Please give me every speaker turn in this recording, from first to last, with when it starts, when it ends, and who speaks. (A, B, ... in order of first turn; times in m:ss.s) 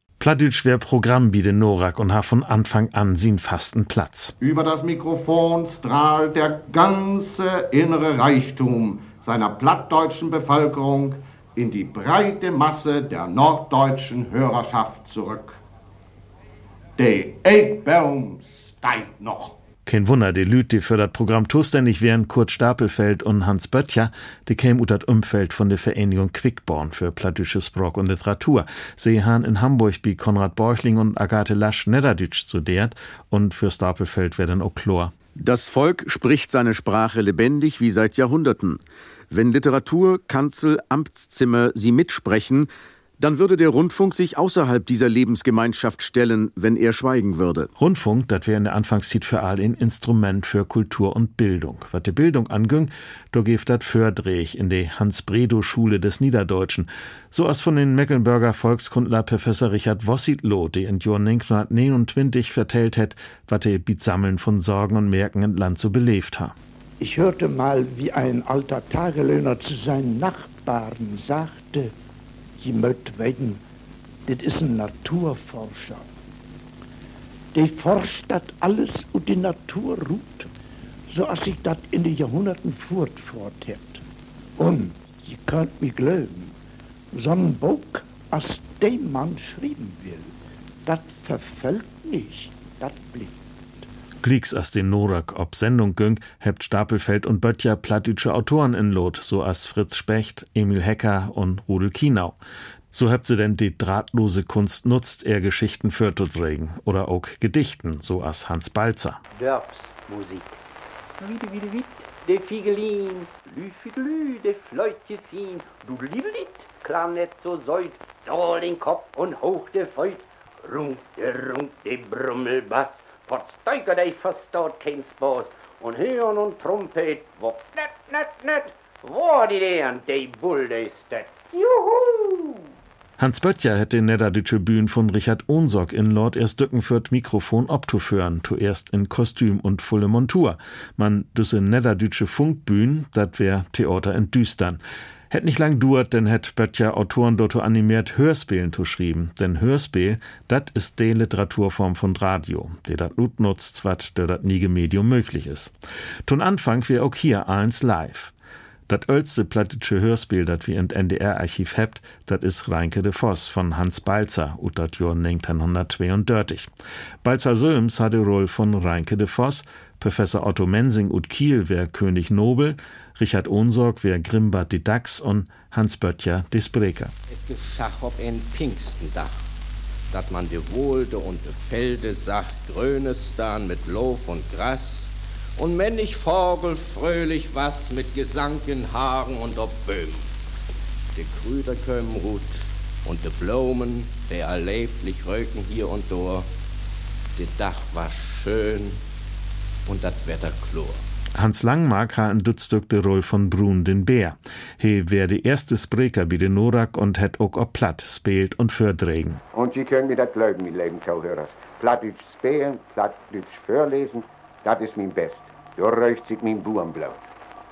0:00.2-0:04.4 A
0:04.4-0:15.6 B
0:17.0-0:19.6 B
0:19.9-0:35.1 A
0:35.4-0:47.7 C
0:47.8-1:06.6 A
1:07.0-1:11.9 D
1:12.6-1:13.6 D
1:14.3-1:16.1 D
1:17.5-1:20.5 D
1:21.1-1:24.0 D
1:24.6-1:26.6 D
1:27.1-1:30.3 D
1:30.9-1:33.9 D
1:34.2-1:42.4 A
1:42.9-1:49.2 A
1:49.4-1:50.6 E
1:51.2-2:12.6 E
2:13.2-2:35.7 A
2:36.3-2:38.3 A
2:38.9-2:46.7 A
2:47.2-2:57.1 A
2:57.3-2:59.4 F
3:00.1-3:10.3 F
3:11.1-3:16.5 F
3:17.4-3:19.0 F
3:19.9-3:21.0 F
3:21.4-3:29.4 A
3:29.5-3:37.2 G